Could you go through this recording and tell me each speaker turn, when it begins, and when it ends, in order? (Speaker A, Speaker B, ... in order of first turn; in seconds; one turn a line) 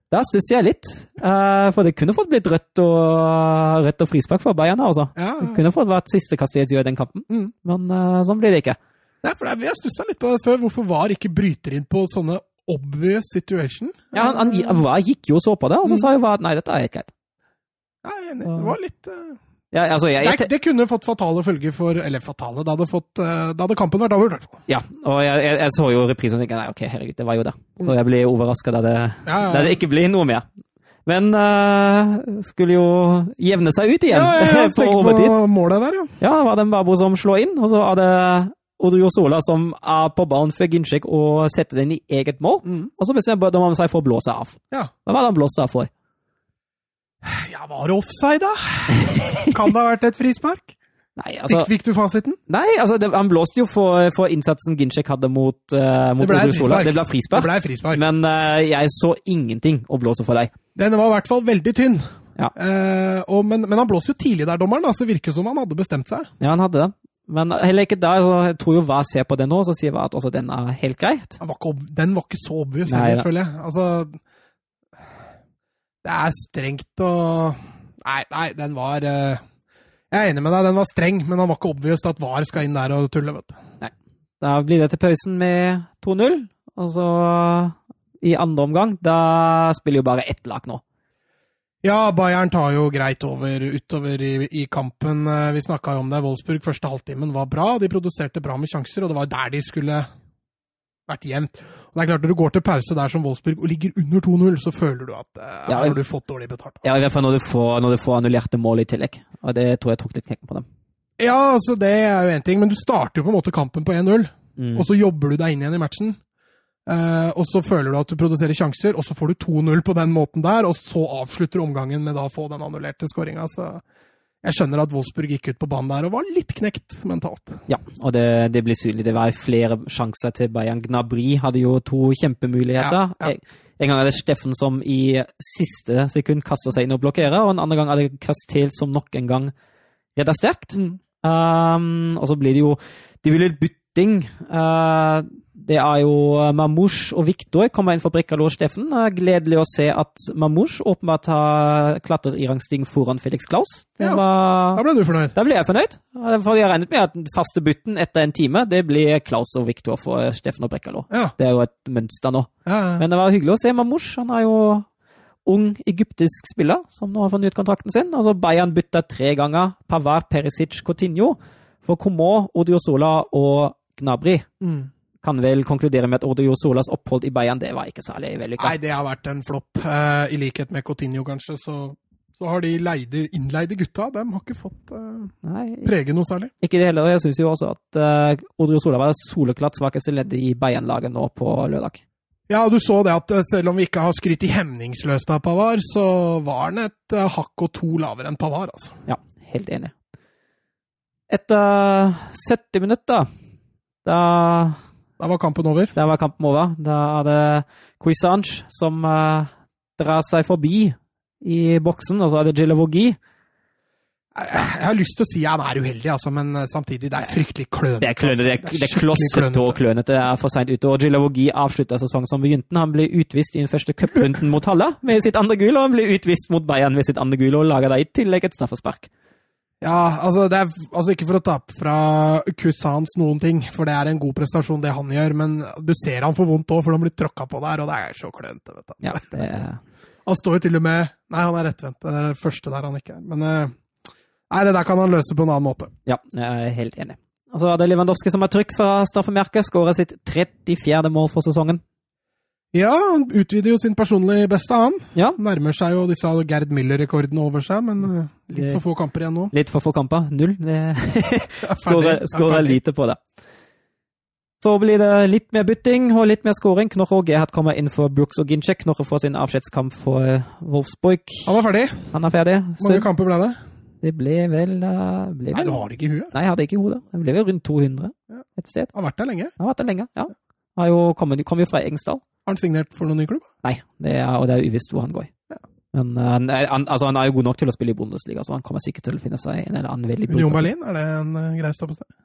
Speaker A: 0.1-8.8
Speaker B: 5.2-5.6
Speaker B: 9.2-14.8
Speaker A: 14.1-17.1
Speaker B: 18.0-19.4
Speaker A: 18.4-18.8
Speaker A: 19.7-20.5
Speaker B: 20.2-24.6
Speaker A: 24.7-30.4
Speaker B: 29.2-29.8
Speaker A: 31.1-35.4
Speaker B: 34.1-36.1
Speaker A: 36.2-45.9
Speaker B: 42.6-42.9
Speaker B: 47.2-50.8
Speaker A: 48.9-49.5
Speaker A: 51.2-51.7
Speaker B: 51.5-52.4
Speaker A: 52.5-60.5
Speaker B: 56.2-58.0
Speaker B: 60.8-62.0
Speaker B: 62.5-66.3
Speaker A: 66.4-71.4
Speaker B: 71.4-74.2
Speaker A: 72.9-73.3
Speaker B: 76.0-79.4
Speaker B: 80.1-83.6
Speaker A: 83.8-90.8
Speaker B: 91.8-100.1
Speaker B: 101.1-106.8
Speaker A: 105.7-106.0
Speaker A: 106.8-110.7
Speaker B: 111.2-116.2
Speaker A: 114.6-114.8
Speaker B: 116.9-123.8
Speaker B: 124.4-127.6
Speaker A: 127.7-139.5
Speaker B: 132.8-133.3
Speaker A: 140.2-154.8
Speaker B: 140.7-141.0
Speaker B: 154.0-155.3
Speaker A: 155.3-164.9
Speaker B: 162.7-163.0
Speaker A: 165.5-174.5
Speaker B: 174.6-174.9
Speaker A: 175.2-178.8
Speaker B: 178.6-185.3
Speaker A: 185.4-185.9
Speaker B: 185.8-186.5
Speaker A: 186.6-192.0
Speaker B: 192.5-199.0
Speaker A: 199.1-199.9
Speaker A: 201.3-203.3
Speaker A: 204.1-204.8
Speaker B: 205.2-205.9
Speaker A: 205.9-213.2
Speaker B: 214.3-219.8
Speaker A: 218.0-229.1
Speaker B: 229.8-239.4
Speaker A: 239.0-239.8
Speaker B: 240.3-243.8
Speaker B: 244.5-245.9
Speaker A: 246.1-251.8
Speaker B: 252.7-259.5
Speaker A: 258.6-258.8
Speaker A: 259.5-263.2
Speaker B: 261.6-262.8
Speaker A: 264.6-271.6
Speaker B: 271.5-272.1
Speaker A: 272.1-273.1
Speaker B: 272.8-273.6
Speaker A: 274.0-278.9
Speaker B: 275.5-276.3
Speaker B: 278.9-279.6
Speaker A: 279.6-282.2
Speaker B: 282.5-283.5
Speaker A: 283.6-285.3
Speaker A: 285.9-290.7
Speaker B: 290.3-292.1